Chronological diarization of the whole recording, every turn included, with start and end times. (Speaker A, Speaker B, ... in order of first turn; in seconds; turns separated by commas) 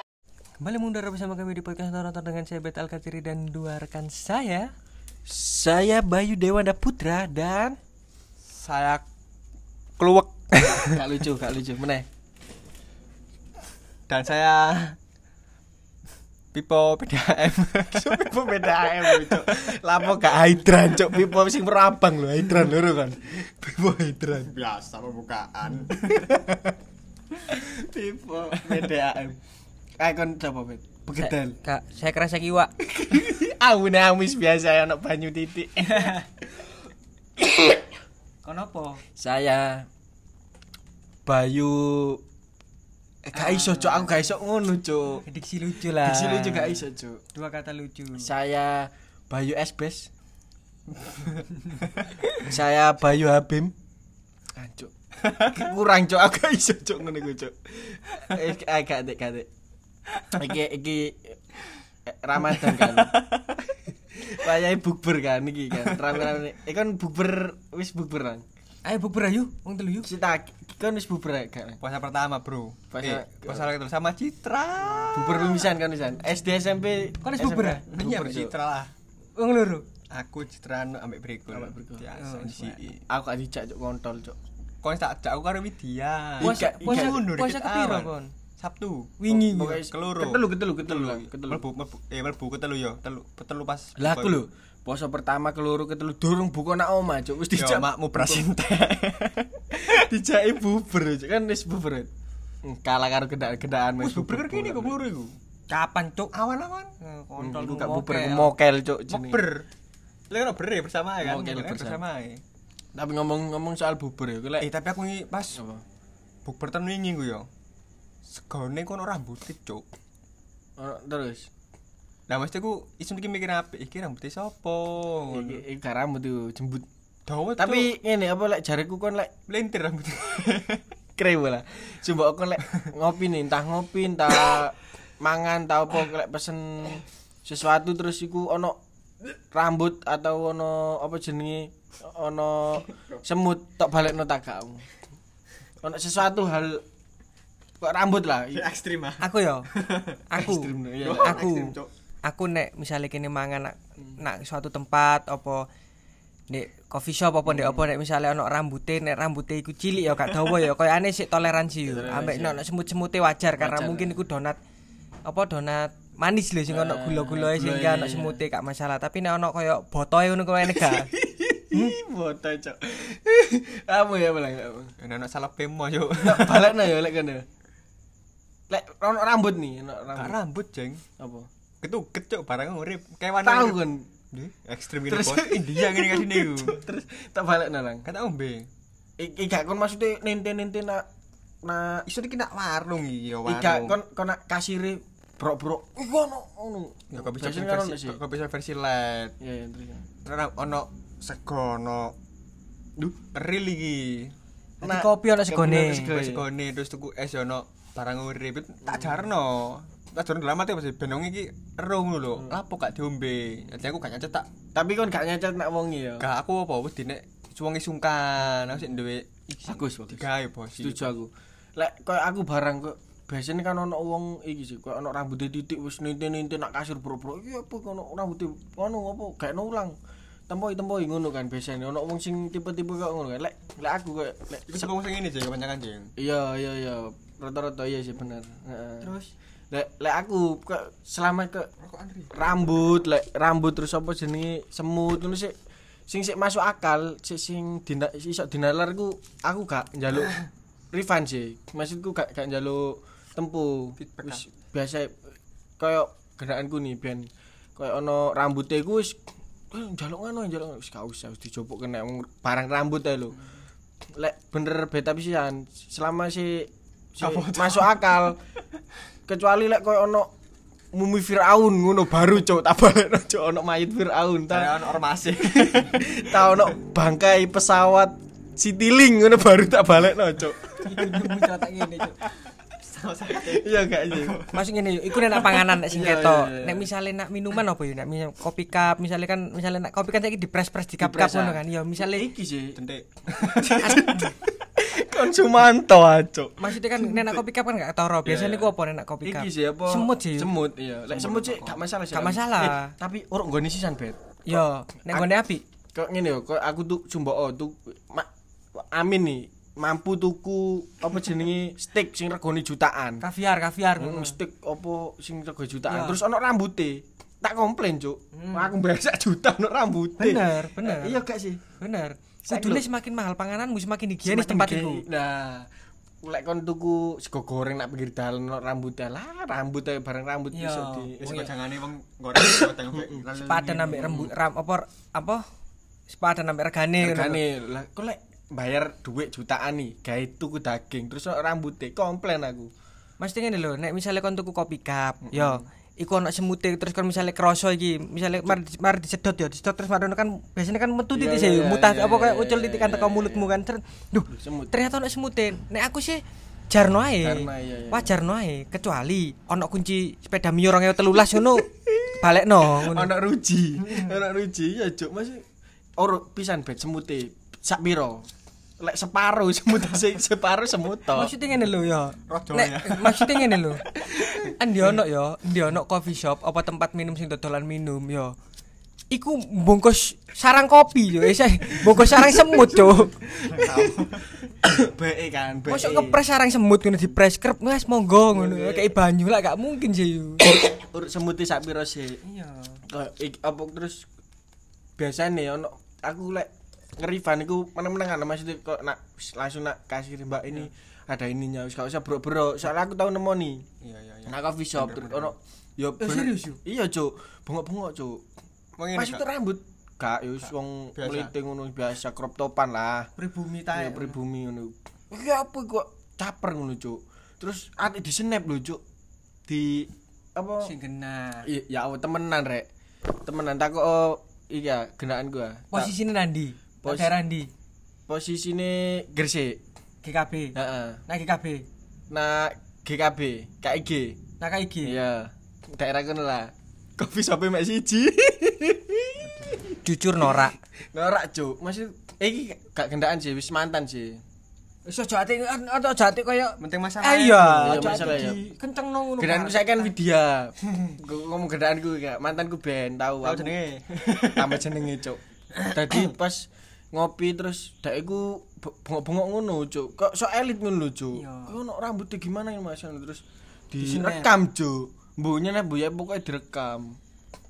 Speaker A: 0.6-4.7, Speaker B: 5.2-7.8, Speaker C: 8.5-9.0, Speaker C: 10.0-11.0, Speaker B: 10.6-12.1, Speaker C: 14.1-15.0, Speaker C: 16.5-19.7, Speaker B: 17.9-24.5, Speaker C: 24.3-26.3, Speaker B: 25.9-26.7, Speaker B: 27.5-29.4, Speaker B: 30.0-31.6, Speaker A: 31.1-32.7, Speaker B: 32.9-36.2, Speaker A: 35.8-36.3, Speaker B: 37.4-37.8, Speaker A: 38.4-39.0, Speaker B: 39.2-39.9, Speaker B: 41.2-42.2, Speaker B: 43.2-45.2, Speaker A: 43.3-44.1, Speaker A: 45.2-48.3, Speaker B: 46.0-47.2, Speaker B: 48.2-50.1, Speaker B: 52.4-53.7, Speaker B: 54.5-59.5, Speaker B: 60.3-61.4, Speaker B: 62.0-63.2, Speaker C: 62.5-63.6, Speaker B: 64.3-68.4, Speaker C: 65.8-66.3, Speaker A: 68.8-70.1, Speaker B: 70.0-71.8, Speaker C: 71.8-75.7, Speaker B: 72.9-73.7, Speaker B: 75.1-78.5, Speaker A: 77.2-77.8, Speaker C: 77.9-78.9, Speaker A: 79.3-79.8, Speaker C: 80.1-83.0, Speaker B: 81.5-84.4, Speaker A: 82.2-82.5, Speaker C: 84.8-94.4, Speaker B: 86.4-87.3, Speaker A: 86.4-88.3, Speaker A: 89.2-89.8, Speaker B: 89.3-91.6, Speaker B: 94.0-98.5, Speaker C: 97.5-100.0, Speaker B: 99.7-102.1, Speaker B: 102.6-105.0, Speaker C: 104.0-105.3, Speaker A: 105.7-106.3, Speaker C: 106.3-106.9, Speaker A: 107.0-108.5, Speaker B: 107.4-109.4, Speaker C: 109.1-109.7, Speaker C: 110.3-112.4, Speaker B: 111.2-112.0, Speaker B: 112.9-114.7, Speaker C: 114.6-115.6, Speaker B: 115.5-115.8, Speaker C: 116.4-117.5, Speaker C: 118.2-119.8, Speaker B: 120.8-121.5, Speaker C: 122.3-125.6, Speaker B: 125.3-126.9, Speaker C: 127.3-127.9, Speaker B: 127.6-129.3, Speaker C: 129.5-130.8, Speaker B: 131.2-138.8, Speaker B: 139.5-144.8, Speaker B: 145.8-146.8, Speaker B: 147.8-148.7, Speaker C: 148.5-150.4, Speaker A: 149.2-149.7, Speaker A: 150.3-155.7, Speaker B: 150.4-151.5, Speaker C: 151.0-151.9, Speaker A: 156.5-164.6, Speaker B: 157.4-157.9, Speaker B: 161.8-162.6, Speaker B: 163.6-164.2, Speaker A: 165.2-171.1, Speaker B: 166.7-168.4, Speaker B: 170.6-174.9, Speaker C: 175.0-176.9, Speaker B: 176.2-177.4, Speaker B: 178.7-180.4, Speaker C: 180.1-181.0, Speaker B: 181.2-181.5, Speaker C: 181.8-183.8, Speaker B: 183.4-184.1, Speaker C: 184.3-186.8, Speaker B: 185.1-188.1, Speaker C: 188.0-188.7, Speaker B: 189.2-191.0, Speaker B: 191.6-192.1, Speaker C: 192.1-194.0, Speaker B: 193.4-198.2, Speaker C: 197.1-199.3, Speaker B: 199.4-200.1, Speaker C: 200.2-202.2, Speaker C: 203.3-204.3, Speaker A: 204.8-206.1, Speaker B: 204.8-206.4, Speaker C: 206.0-214.5, Speaker B: 208.9-209.2, Speaker B: 214.7-216.3, Speaker C: 216.2-221.1, Speaker B: 219.6-229.9, Speaker B: 230.5-234.9, Speaker C: 234.7-236.1, Speaker B: 236.2-239.1, Speaker C: 239.0-239.3, Speaker B: 239.7-241.7, Speaker C: 241.8-242.3, Speaker B: 242.3-245.5, Speaker B: 246.1-250.4, Speaker B: 250.9-255.1, Speaker C: 254.0-254.4, Speaker B: 255.8-259.2, Speaker B: 259.7-263.4, Speaker B: 264.2-268.4, Speaker C: 267.2-268.1, Speaker B: 269.3-270.3, Speaker B: 270.9-274.8, Speaker C: 274.5-276.7, Speaker B: 275.3-281.3, Speaker A: 280.8-282.2, Speaker C: 282.7-284.6, Speaker B: 283.3-284.4, Speaker A: 284.5-292.3, Speaker C: 285.2-285.7, Speaker B: 285.9-286.9, Speaker B: 291.0-292.8, Speaker C: 292.7-294.3, Speaker B: 293.4-297.4, Speaker A: 296.6-300.5, Speaker B: 298.2-298.7, Speaker B: 299.2-305.3, Speaker C: 301.1-301.8, Speaker A: 302.1-302.9, Speaker A: 304.5-305.6, Speaker B: 305.9-313.2, Speaker A: 313.2-314.4, Speaker B: 314.0-321.6, Speaker A: 315.9-316.2, Speaker A: 318.3-318.7, Speaker A: 320.2-321.2, Speaker A: 321.8-325.1, Speaker B: 322.4-322.9, Speaker B: 324.2-325.7, Speaker B: 326.2-331.5, Speaker A: 330.5-331.3, Speaker C: 331.2-334.3, Speaker B: 332.3-333.2, Speaker A: 333.4-335.4, Speaker A: 336.1-337.4, Speaker B: 337.0-342.7, Speaker A: 343.2-363.1, Speaker B: 345.2-345.6, Speaker B: 351.1-353.6, Speaker B: 354.3-354.7, Speaker B: 357.2-358.1, Speaker B: 361.3-362.1, Speaker B: 362.6-365.4, Speaker B: 366.0-368.3, Speaker B: 368.8-371.3, Speaker A: 371.1-373.8, Speaker C: 372.3-373.6, Speaker A: 374.4-378.3, Speaker A: 379.1-383.1, Speaker B: 381.7-386.2, Speaker C: 383.4-384.3, Speaker A: 385.6-390.4, Speaker B: 388.3-388.9, Speaker B: 390.4-392.2, Speaker A: 392.2-392.8, Speaker B: 392.9-394.0, Speaker B: 395.0-403.6, Speaker C: 403.8-405.3, Speaker B: 404.3-408.2, Speaker A: 406.0-406.6, Speaker C: 408.8-409.2, Speaker B: 408.9-413.1, Speaker C: 410.9-411.3, Speaker A: 413.2-414.1, Speaker B: 413.7-418.8, Speaker B: 419.5-420.7, Speaker A: 420.6-421.5, Speaker B: 421.4-422.7, Speaker B: 423.2-425.9, Speaker A: 425.7-427.5, Speaker B: 426.8-427.2, Speaker B: 428.1-429.6, Speaker A: 430.0-430.6, Speaker B: 430.5-431.0, Speaker A: 431.1-431.6, Speaker B: 432.1-434.2, Speaker A: 434.4-435.0, Speaker B: 434.8-439.7, Speaker C: 439.2-439.6, Speaker A: 439.8-440.5, Speaker B: 440.9-444.2, Speaker A: 444.9-449.9, Speaker C: 446.6-448.3, Speaker B: 447.6-448.4, Speaker B: 449.2-453.5, Speaker C: 453.2-454.8, Speaker B: 454.3-455.2, Speaker C: 455.5-456.1, Speaker B: 455.7-467.0, Speaker A: 461.1-461.6, Speaker A: 463.8-464.3